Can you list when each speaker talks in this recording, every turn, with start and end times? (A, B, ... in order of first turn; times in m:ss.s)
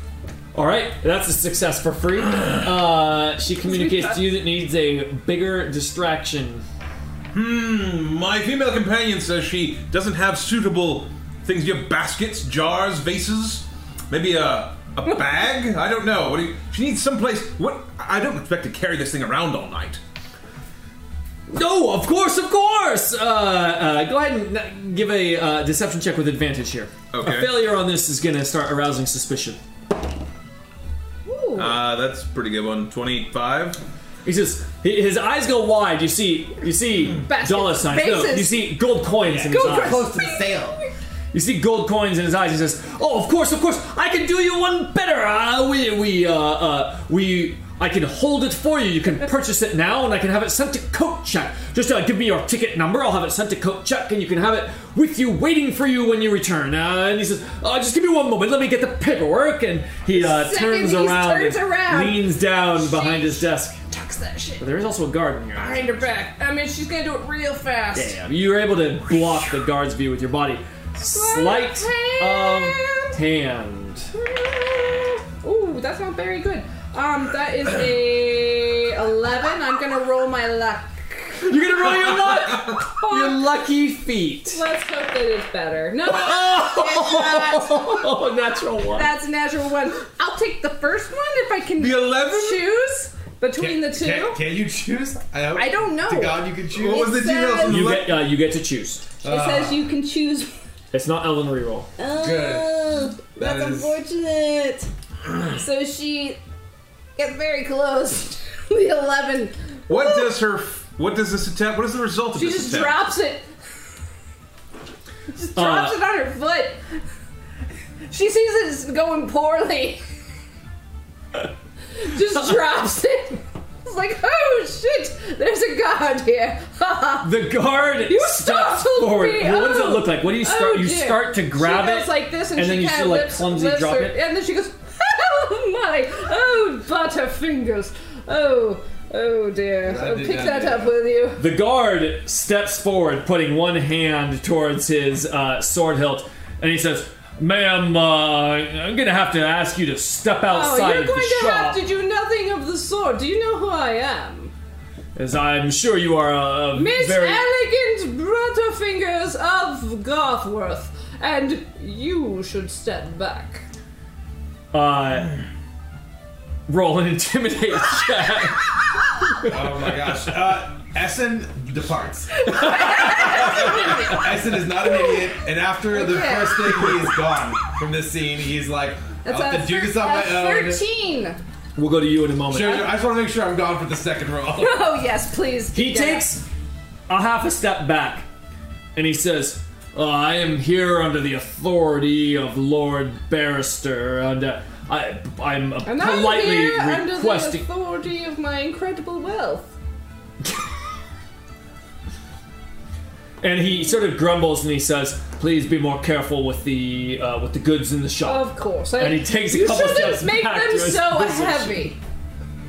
0:00.5-0:06.6 A
0:03.7-0:04.1 B
0:07.3-0:20.0 C
0:21.5-0:29.6 A
0:27.1-0:27.6 C
0:31.3-0:31.8 B
0:31.6-0:33.8 C
0:34.2-0:40.1 A
0:37.2-0:38.8 B
0:39.2-0:40.8 D
0:39.4-0:40.9 B
0:41.3-1:03.8 A
1:00.1-1:04.6 B
1:04.6-1:06.0 A
1:05.6-1:08.2 B
1:07.9-1:14.1 A
1:11.1-1:13.2 B
1:14.1-1:23.4 B
1:21.4-1:24.6 A
1:24.5-1:28.2 B
1:26.0-1:29.2 A
1:28.9-1:34.4 B
1:31.8-1:32.7 C
1:33.5-1:37.2 D
1:35.5-1:37.9 B
1:36.7-1:38.2 C
1:37.6-1:39.1 A
1:39.2-1:40.5 B
1:39.2-1:39.8 D
1:40.9-1:41.9 A
1:42.0-1:46.4 B
1:42.1-1:44.0 D
1:47.2-1:50.4 B
1:49.9-1:53.0 C
1:52.4-1:53.5 B
1:55.3-1:56.8 B
1:55.6-1:56.0 A
1:58.1-2:00.0 B
2:01.9-2:07.4 B
2:07.2-2:14.2 A
2:08.0-2:21.4 B
2:19.8-2:20.9 D
2:21.4-2:31.8 A
2:30.5-2:34.5 B
2:35.2-2:37.4 A
2:36.7-2:43.6 B
2:44.7-2:45.4 A
2:46.7-2:50.3 A
2:49.5-3:00.8 D
2:52.5-2:55.3 B
2:52.6-2:53.5 A
2:55.9-2:57.1 B
2:59.2-3:01.4 B
3:01.8-3:02.9 A
3:02.5-3:04.8 D
3:04.6-3:06.3 B
3:05.7-3:06.5 A
3:07.1-3:08.3 A
3:09.0-3:17.6 A
3:15.8-3:19.7 B
3:23.4-3:31.9 A
3:28.2-3:32.0 B